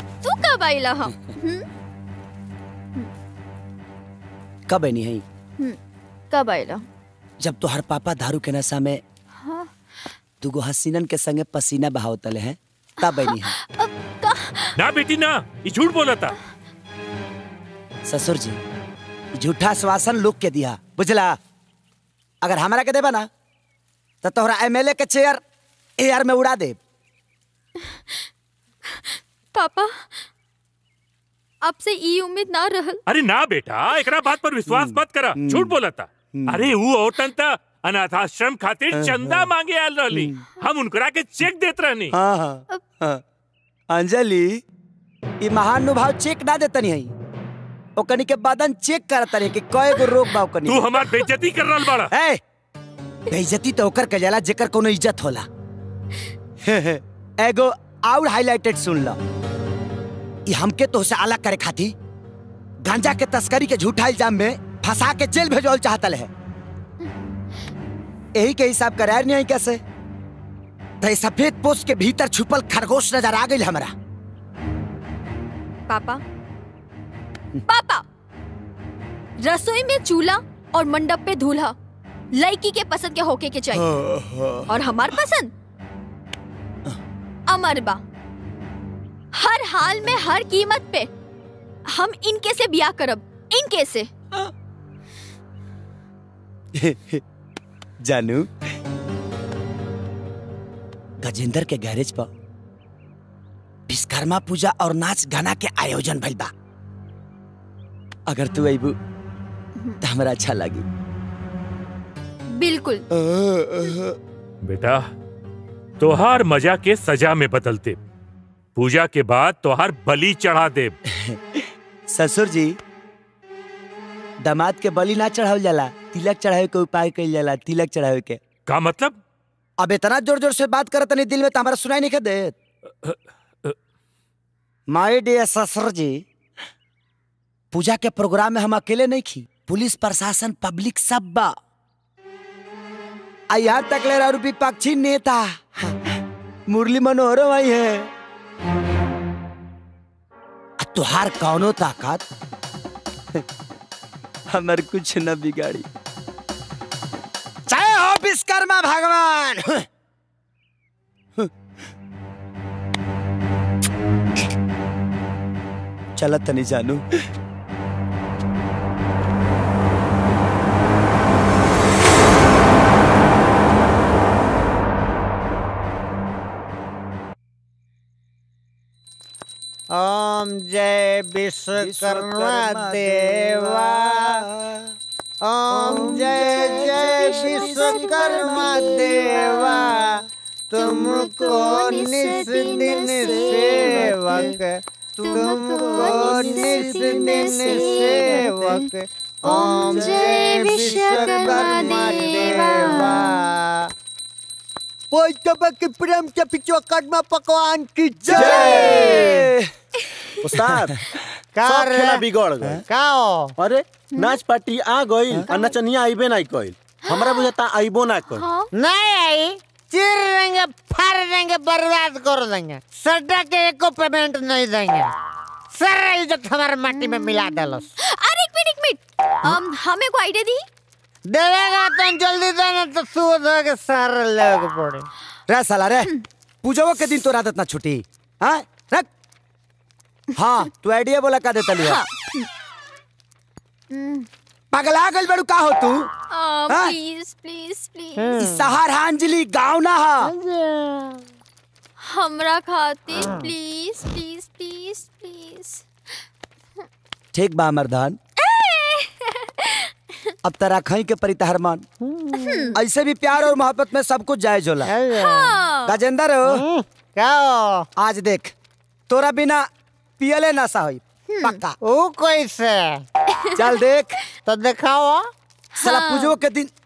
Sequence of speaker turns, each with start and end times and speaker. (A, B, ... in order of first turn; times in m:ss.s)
0:00.2-0:01.7 A
0:04.7-0:05.2 B
0:06.3-0:06.8 A
0:07.4-0:09.0 B
0:09.4-0:09.7 A
0:10.4-0:13.5 B
0:13.0-0:14.7 A
0:14.8-0:16.3 C
0:18.1-0:18.6 B
0:19.4-0:21.4 B
0:22.4-0:23.3 B
0:24.2-0:25.4 B
0:26.0-0:26.8 B
0:28.9-0:30.2 A
0:31.6-0:33.0 A
0:33.1-0:42.1 C
0:34.7-0:35.7 B
0:36.4-0:36.7 B
0:39.0-0:39.5 B
0:40.1-0:40.4 B
0:42.1-0:43.2 B
0:43.9-0:44.6 B
0:45.4-0:47.1 B
0:48.0-0:50.8 B
0:50.7-0:52.1 C
0:52.1-0:52.4 B
0:53.3-0:55.5 B
0:56.6-0:59.2 B
1:00.5-1:01.9 B
1:02.9-1:06.3 B
1:08.4-1:09.8 B
1:11.0-1:13.9 B
1:15.9-1:16.2 A
1:17.7-1:18.0 A
1:19.4-1:21.8 A
1:22.3-1:23.8 A
1:23.8-1:24.6 B
1:24.7-1:25.5 A
1:27.5-1:28.0 A
1:29.3-1:31.1 A
1:31.9-1:34.1 A
1:36.8-1:37.2 B
1:38.0-1:38.5 B
1:41.2-1:42.3 B
1:43.9-1:46.5 B
1:48.3-1:49.0 B
1:50.0-1:50.8 B
1:52.5-1:53.0 A
1:53.2-1:54.1 B
1:54.6-1:55.0 C
1:56.0-1:58.0 C
1:58.8-2:01.0 C
2:01.1-2:02.8 B
2:04.4-2:08.4 B
2:08.7-2:09.2 C
2:09.8-2:12.5 B
2:14.9-2:16.2 B
2:17.7-2:21.6 B
2:23.5-2:26.1 B
2:26.7-2:28.1 B
2:30.8-2:32.2 B
2:34.5-2:35.9 B
2:37.7-2:39.8 B
2:46.2-2:47.0 B
2:59.9-3:04.4 D
3:01.8-3:04.8 B
3:05.4-3:23.9 D
3:05.9-3:06.5 B
3:07.2-3:08.4 B
3:11.2-3:14.5 A
3:15.2-3:18.8 A
3:19.5-3:23.2 A
3:26.0-3:29.5 D
3:28.3-3:29.6 B
3:28.3-3:29.3 E
3:30.4-3:31.0 E
3:31.6-3:32.3 D
3:31.6-3:32.8 E
3:32.9-3:33.5 D
3:33.6-3:38.5 E
3:37.1-3:37.5 A
3:38.4-3:38.7 A
3:38.7-3:45.1 D
3:45.7-3:47.9 D
3:48.0-3:50.6 A
3:51.3-3:55.1 D
3:55.5-3:56.1 B
3:56.6-3:59.1 B
4:00.4-4:02.0 B
4:01.8-4:02.5 A
4:03.9-4:04.3 A
4:04.7-4:06.0 B
4:06.3-4:08.4 A
4:06.7-4:07.0 B
4:08.2-4:08.7 D
4:08.4-4:10.3 B
4:12.0-4:15.8 A
4:17.3-4:18.2 B
4:18.4-4:19.9 A
4:20.4-4:21.9 B
4:22.0-4:22.7 D
4:22.4-4:22.8 A
4:22.8-4:24.9 B
4:24.9-4:25.6 D
4:25.2-4:25.9 A
4:25.9-4:26.6 B
4:26.5-4:27.9 D
4:28.0-4:28.5 B
4:29.1-4:29.7 B
4:30.2-4:31.8 B
4:31.3-4:31.6 A
4:31.8-4:33.0 D
4:33.6-4:34.2 B
4:34.5-4:35.3 D
4:35.8-4:36.4 A
4:35.8-4:36.7 B